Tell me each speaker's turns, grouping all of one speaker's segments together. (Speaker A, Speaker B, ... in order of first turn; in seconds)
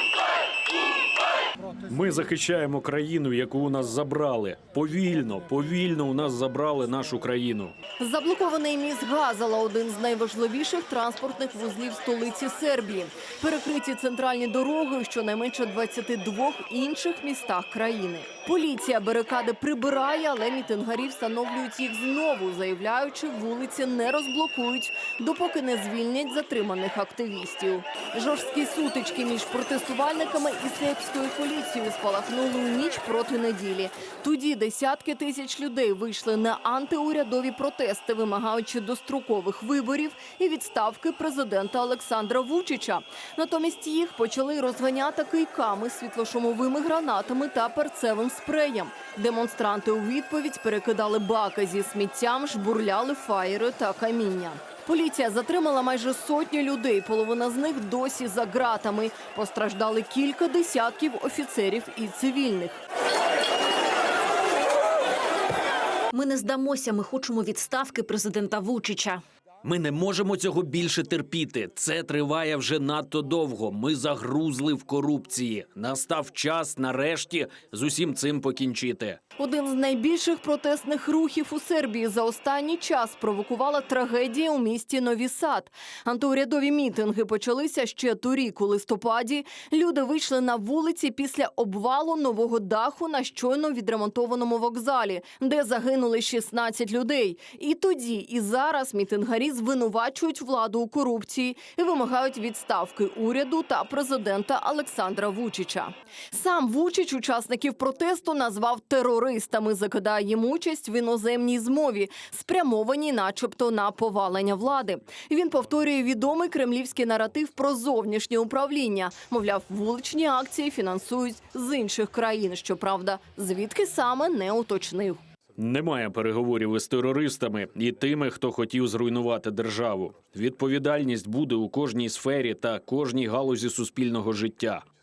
Speaker A: 1.9-7.8, 69.6-79.2, 125.6-134.8
Speaker B: 8.0-62.8, 79.4-125.2
Speaker C: 66.1-69.2